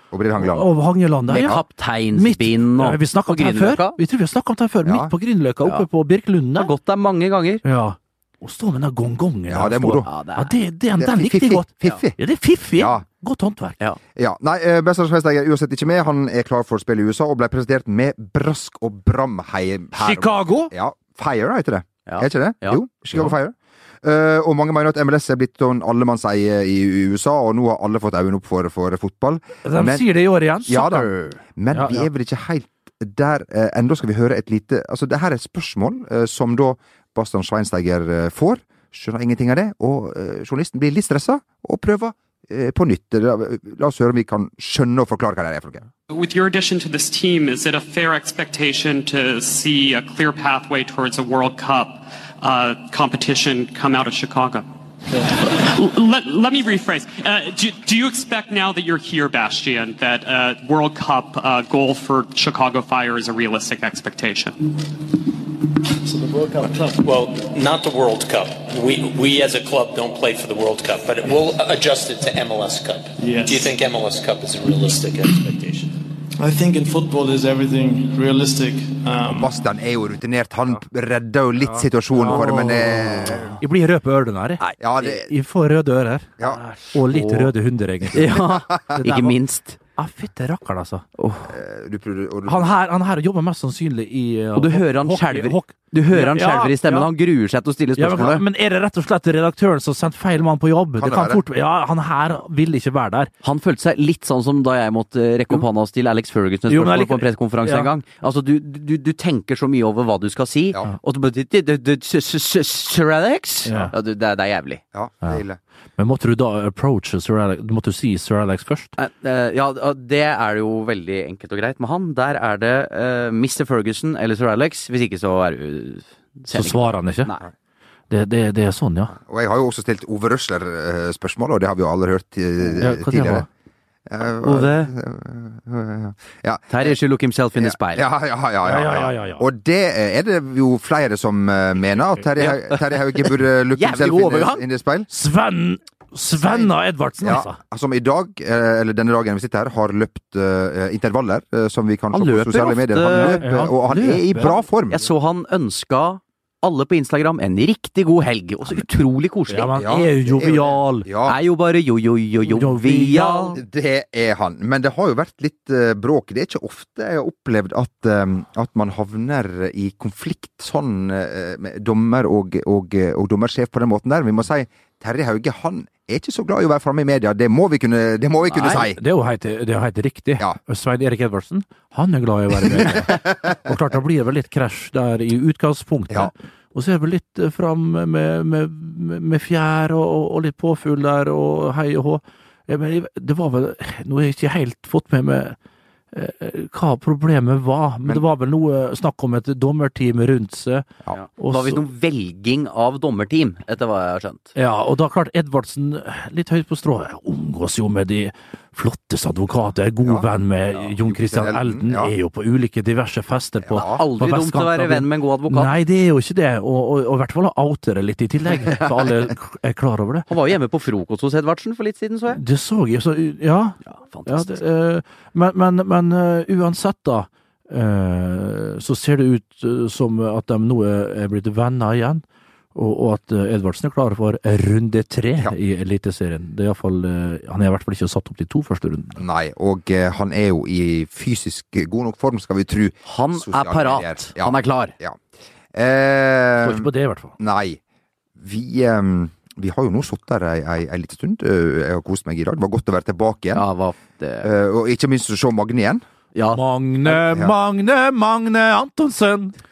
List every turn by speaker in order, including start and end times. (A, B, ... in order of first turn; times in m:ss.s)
0:00.1-0:00.7 A
0:00.4-0:01.6 B
0:01.3-0:04.0 C
0:01.3-0:01.6 A
0:02.1-0:06.7 B
0:04.8-0:05.1 A
0:06.5-0:07.6 C
0:07.6-0:13.8 B
0:09.5-0:10.1 A
0:10.0-0:10.5 C
0:11.0-0:12.2 A
0:12.7-0:13.0 A
0:14.2-0:30.0 A
0:19.9-0:20.7 B
0:22.0-0:22.8 C
0:29.6-0:32.1 B
0:30.6-0:45.8 A
0:46.1-0:54.7 D
0:55.4-1:04.6 D
1:06.0-1:07.0 E
1:06.9-1:15.9 F
1:13.2-1:13.7 E
1:16.4-1:19.5 E
1:19.2-1:23.6 A
1:21.6-1:29.4 B
1:24.8-1:25.3 A
1:27.1-1:27.5 C
1:28.1-1:29.8 C
1:30.0-1:31.0 B
1:31.2-1:31.5 C
1:31.5-1:32.7 A
1:32.4-1:37.1 B
1:34.5-1:38.4 C
1:38.0-1:43.3 B
1:41.0-1:41.4 A
1:43.4-1:54.8 C
1:46.7-1:47.9 B
1:53.6-1:53.9 B
1:54.9-1:55.6 A
1:56.0-1:58.9 B
1:59.0-2:07.4 C
2:06.5-2:07.3 B
2:08.1-2:09.1 B
2:09.1-2:13.5 A
2:12.8-2:13.4 B
2:14.1-2:17.0 A
2:14.4-2:14.9 C
2:16.7-2:18.1 C
2:17.5-2:25.1 A
2:18.6-2:19.4 B
2:22.4-2:24.6 C
2:25.1-2:27.6 B
2:26.4-2:26.7 A
2:27.2-2:35.0 A
2:32.1-2:33.4 C
2:33.1-2:34.6 B
2:34.4-2:39.7 C
2:39.5-2:41.1 B
2:39.8-2:41.4 A
2:41.2-2:43.6 C
2:42.4-2:43.6 B
2:43.6-2:59.0 A
2:58.5-2:58.8 C
2:58.6-3:15.6 B
3:16.1-3:20.9 B
3:21.1-3:24.5 C
3:21.4-3:21.8 B
3:24.5-3:40.3 B
3:30.0-3:32.1 A
3:33.6-3:34.0 A
3:33.8-3:35.7 C
3:40.3-3:42.4 C
3:42.3-3:52.2 B
3:43.9-3:44.6 C
3:52.7-3:59.2 B
3:59.2-4:05.2 A
4:03.0-4:04.9 C
4:05.7-4:07.8 A
4:06.6-4:07.3 B
4:08.4-4:13.6 A
4:13.5-4:14.5 C
4:14.4-4:16.0 A
4:16.3-4:16.6 C
4:16.5-4:19.5 B
4:17.0-4:17.5 A